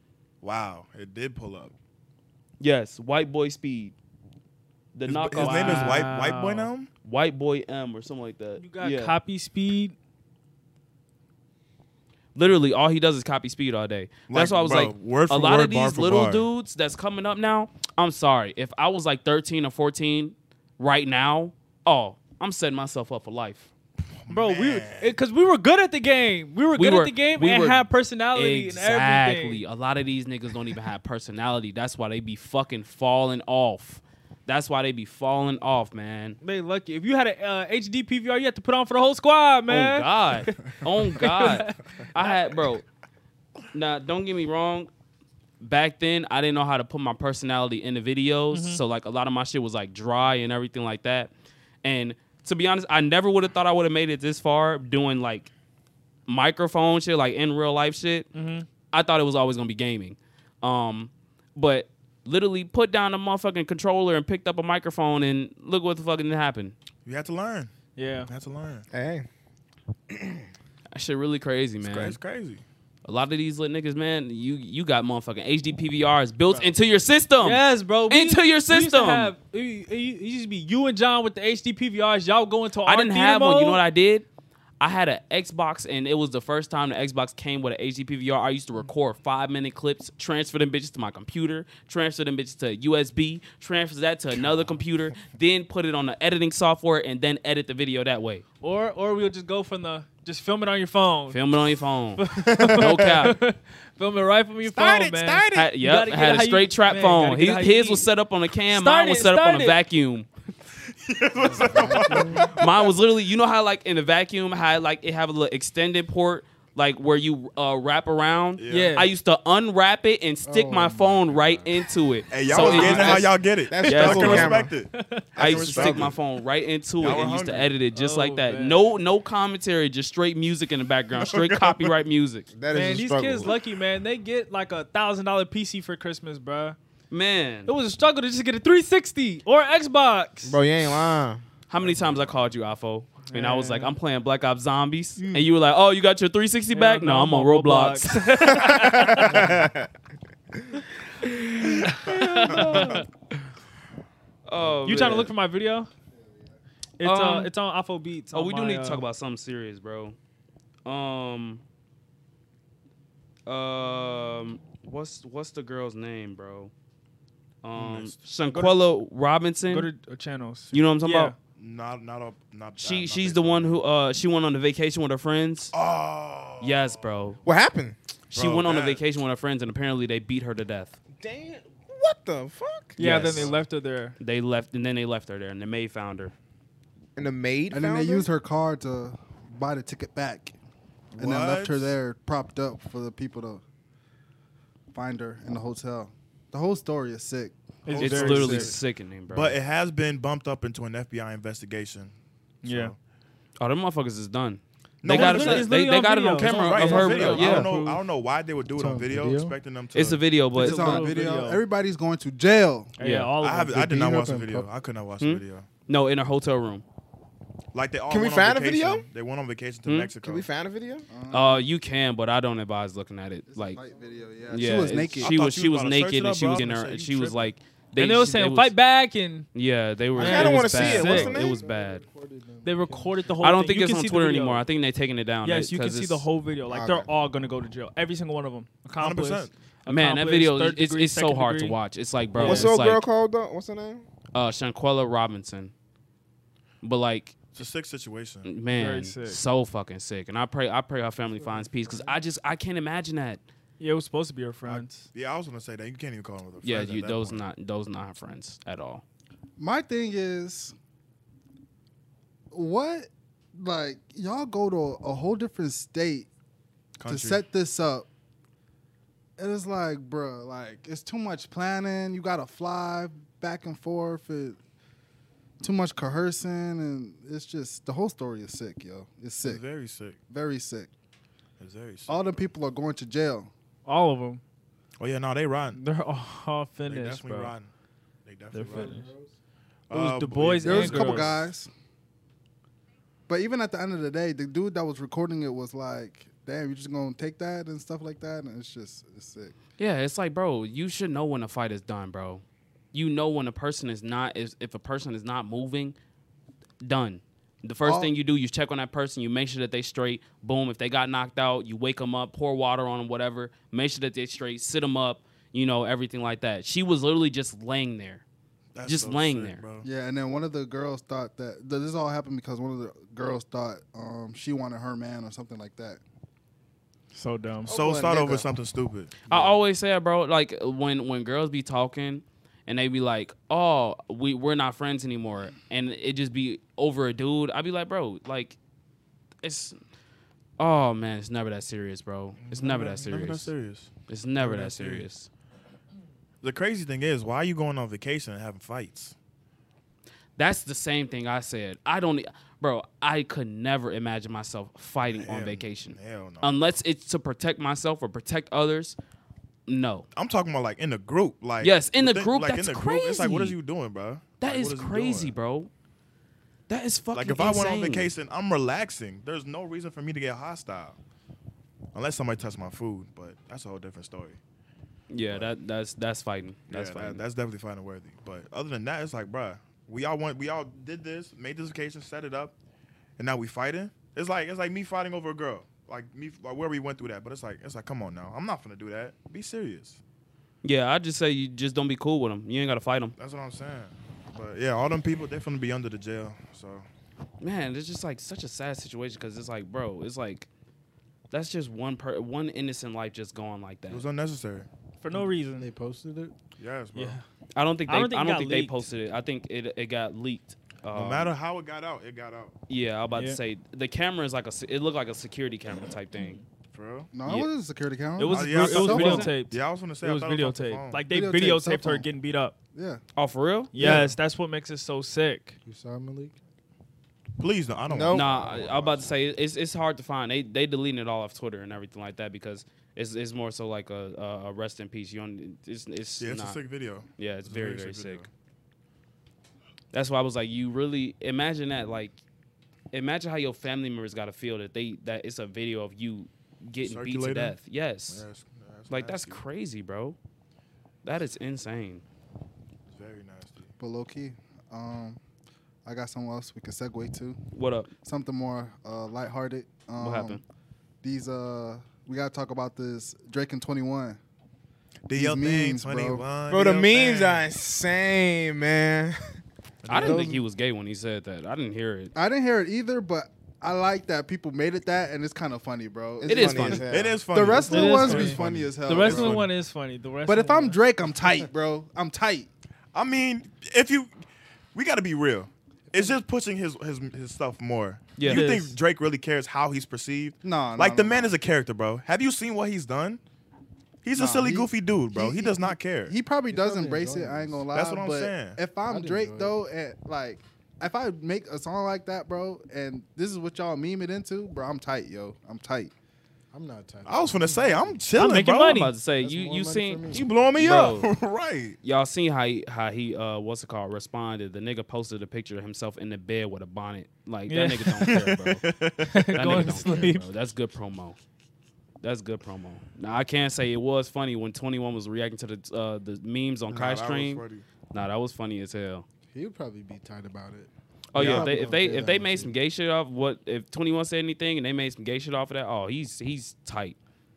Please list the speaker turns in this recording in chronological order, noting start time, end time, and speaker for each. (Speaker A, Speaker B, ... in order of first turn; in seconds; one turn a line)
Speaker A: 0.4-1.7
Speaker B: 2.6-3.9
Speaker B: 4.9-6.1
Speaker A: 5.0-6.9
Speaker C: 5.4-6.7
Speaker B: 7.0-9.2
Speaker C: 8.6-9.9
Speaker B: 12.3-23.7
Speaker A: 14.3-16.5
Speaker A: 24.1-25.1
Speaker C: 24.3-29.6
Speaker B: 26.8-36.4
Speaker C: 36.4-41.8
Speaker B: 39.7-42.8
Speaker B: 43.7-44.9
Speaker B: 45.6-51.3
Speaker C: 48.5-48.8
Speaker B: 51.8-55.5
Speaker B: 56.3-58.3
Speaker C: 58.3-58.7
Speaker B: 58.9-66.8
Speaker A: 67.0-67.7
Speaker C: 68.0-68.3
Speaker A: 68.3-68.8
Speaker D: 68.9-69.3
Speaker B: 70.9-72.2
Speaker A: 71.8-72.6
Speaker B: 73.0-79.3
Speaker C: 77.4-83.8
Speaker B: 82.8-84.2
Speaker B: 84.8-98.4
Speaker A: 94.5-94.7
Speaker C: 98.6-101.4
Speaker B: 101.3-103.4
Speaker C: 102.2-108.1
Speaker D: 102.5-103.0
Speaker D: 104.8-105.6
Speaker B: 105.5-110.3
Speaker C: 108.6-109.8
Speaker A: 111.0-112.9
Speaker E: 111.4-112.5
Speaker C: 112.2-112.4
Speaker B: 112.4-123.3
Speaker A: 118.6-119.0
Speaker C: 118.7-119.1
Speaker E: 120.4-121.7
Speaker A: 122.3-126.2
Speaker D: 122.4-124.8
Speaker B: 123.8-124.6
Speaker C: 124.9-125.3
Speaker B: 125.3-132.5
Speaker D: 125.4-126.0
Speaker A: 127.0-127.7
Speaker C: 127.9-128.9
Speaker A: 131.2-131.9
Speaker D: 132.5-133.5
Speaker C: 132.7-136.8
Speaker B: 137.1-137.7
Speaker C: 137.7-140.6
Speaker D: 140.4-141.4
Speaker B: 141.7-148.7
Speaker A: 141.8-142.3
Speaker C: 143.3-143.9
Speaker C: 146.7-149.5
Speaker D: 148.6-149.9
Speaker B: 151.2-153.1
Speaker C: 151.8-153.0
Speaker A: 152.1-153.0
Speaker B: 154.4-155.3
Speaker C: 154.8-155.9
Speaker C: 157.0-159.0
Speaker B: 157.0-157.5
Speaker B: 158.3-160.2
Speaker B: 160.8-161.6
Speaker B: 163.4-166.7
Speaker B: 167.6-169.9
Speaker A: 167.7-168.8
Speaker C: 169.7-171.3
Speaker B: 170.7-171.3
Speaker A: 171.6-173.8
Speaker B: 172.8-175.7
Speaker A: 175.7-177.0
Speaker B: 176.6-177.4
Speaker D: 177.4-178.0
Speaker B: 178.3-180.9
Speaker A: 178.3-179.0
Speaker D: 181.2-183.5
Speaker C: 183.0-184.2
Speaker B: 183.0-183.5
Speaker A: 183.2-183.5
Speaker B: 184.2-186.3
Speaker D: 187.2-188.3
Speaker F: 187.7-190.6
Speaker A: 191.1-191.9
Speaker F: 191.2-193.6
Speaker F: 194.9-197.5
Speaker C: 197.8-198.7
Speaker A: 197.9-198.8
Speaker B: 198.0-199.6
Speaker A: 199.3-202.9
Speaker C: 202.6-202.9
Speaker B: 203.6-207.7
Speaker A: 205.0-205.8
Speaker C: 205.1-208.0
Speaker A: 206.4-210.2
Speaker E: 208.7-209.6
Speaker B: 209.9-211.1
Speaker C: 210.5-211.6
Speaker F: 210.6-212.9
Speaker C: 213.0-213.9
Speaker B: 213.0-213.3
Speaker A: 213.4-215.7
Speaker E: 213.7-214.7
Speaker B: 215.2-216.8
Speaker A: 217.7-220.5
Speaker D: 218.1-219.1
Speaker B: 219.8-220.1
Speaker D: 220.2-221.1
Speaker F: 221.1-221.7
Speaker B: 221.3-223.8
Speaker F: 223.5-225.3
Speaker E: 223.8-224.6
Speaker B: 224.5-228.8
Speaker A: 225.1-227.5
Speaker C: 228.0-229.5
Speaker B: 229.5-232.0
Speaker D: 230.1-231.6
Speaker C: 230.2-231.4
Speaker E: 231.3-233.3
Speaker C: 232.6-234.6
Speaker B: 233.4-236.2
Speaker C: 235.4-241.8
Speaker D: 236.7-237.0
Speaker A: 239.0-239.5
Speaker B: 239.9-243.0
Speaker C: 242.3-242.7
Speaker D: 242.4-244.1
Speaker B: 244.3-245.7
Speaker B: 246.8-247.4
Speaker A: 247.5-248.5
Speaker B: 248.4-253.4
Speaker C: 248.7-249.4
Speaker E: 251.4-252.2
Speaker C: 253.8-255.1
Speaker A: 254.6-257.4
Speaker B: 256.6-259.0
Speaker F: 259.6-260.7
Speaker F: 262.5-266.3
Speaker A: 267.0-267.4
Speaker F: 267.1-268.1
Speaker F: 269.4-274.6
Speaker F: 275.6-279.6
Speaker A: 279.4-280.2
Speaker F: 280.3-280.9
Speaker A: 281.6-282.4
Speaker F: 282.1-283.5
Speaker C: 283.9-284.4
Speaker A: 285.0-285.8
Speaker C: 285.7-287.5
Speaker A: 286.8-287.7
Speaker A: 288.2-289.0
Speaker C: 288.5-289.1
Speaker E: 288.6-289.4
Speaker A: 289.9-291.4
Speaker C: 289.9-291.3
Speaker F: 290.6-291.7
Speaker F: 293.3-299.5
Speaker B: 299.8-305.9
Speaker B: 306.8-318.2
Speaker F: 307.8-308.1
Speaker A: 318.7-319.9
Speaker B: 318.8-319.6
Speaker F: 319.8-326.0
Speaker C: 327.1-327.7
Speaker A: 327.7-329.6
Speaker F: 327.7-328.4
Speaker B: 329.3-338.6
Speaker B: 339.4-339.8
Speaker B: 340.6-343.5
Speaker A: 342.4-345.1
Speaker B: 344.1-345.3
Speaker A: 346.4-349.1
Speaker B: 350.4-359.0
Speaker A: 355.1-356.5
Speaker B: 359.7-360.1
Speaker A: 360.1-365.3
Speaker B: 361.6-363.6
Speaker B: 364.4-365.7
Speaker B: 366.7-368.1
Speaker A: 367.1-371.0
Speaker A: 371.9-374.4
Speaker B: 375.1-377.2
Speaker A: 375.2-375.5
Speaker A: 376.7-382.5
Speaker A: 383.2-390.0
Speaker B: 390.6-393.1
Speaker A: 393.2-396.9
Speaker B: 397.4-400.5
Speaker B: 401.3-404.0
Speaker A: 403.9-404.7
Speaker C: 405.0-405.7
Speaker E: 405.5-406.4
Speaker A: 406.6-407.2
Speaker C: 406.9-407.2
Speaker B: 407.5-411.3
Speaker C: 407.9-408.9
Speaker A: 410.9-412.5
Speaker B: 412.7-416.4
Speaker C: 413.1-413.4
Speaker A: 416.7-417.1
Speaker F: 417.1-419.3
Speaker C: 418.2-422.5
Speaker A: 418.3-421.0
Speaker B: 418.4-419.3
Speaker F: 421.1-422.1
Speaker F: 422.7-423.0
Speaker B: 423.1-423.7
Speaker C: 423.7-425.6
Speaker A: 423.8-424.1
Speaker E: 425.6-426.4
Speaker A: 427.4-429.1
Speaker D: 427.9-428.2
Speaker B: 428.1-436.6
Speaker A: 436.2-438.3
Speaker B: 437.2-438.2
Speaker B: 439.9-442.2
Speaker B: 442.9-448.2
Speaker A: 446.8-447.6
Speaker A: 448.1-449.4
Speaker B: 448.9-450.2
Speaker B: 451.0-452.0
Speaker A: 452.9-453.7
Speaker F: 453.8-455.2
Speaker F: 455.8-457.4
Speaker B: 457.5-457.9
Speaker F: 458.0-460.4
Speaker B: 460.0-460.4
Speaker F: 461.0-464.2
Speaker A: 465.1-467.5
Speaker F: 465.1-466.2
Speaker D: 466.5-469.4
Speaker A: 469.8-470.4
Speaker B: 469.9-472.1
Speaker D: 469.9-470.3
Speaker F: 472.1-479.4
Speaker D: 476.2-477.2
Speaker B: 476.2-476.8
Speaker A: 476.9-479.5
Speaker C: 477.6-480.8
Speaker F: 480.2-482.5
Speaker A: 482.9-493.2
Speaker B: 488.2-488.5
Speaker C: 488.2-488.8
Speaker F: 490.4-491.3
Speaker A: 494.0-496.1
Speaker F: 494.1-505.9
Speaker E: 496.5-497.7
Speaker A: 497.7-498.6
Speaker E: 498.8-499.6
Speaker E: 506.5-508.1
Speaker A: 507.0-508.9
Speaker C: 508.1-508.9
Speaker B: 508.4-511.1
Speaker E: 509.2-510.3
Speaker A: 510.1-511.8
Speaker B: 511.8-518.6
Speaker C: 517.5-518.1
Speaker A: 518.0-520.0
Speaker C: 519.0-520.2
Speaker B: 519.3-521.2
Speaker B: 522.0-529.0
Speaker A: 526.7-527.6
Speaker E: 529.3-532.5
Speaker B: 531.1-537.0
Speaker A: 531.1-531.7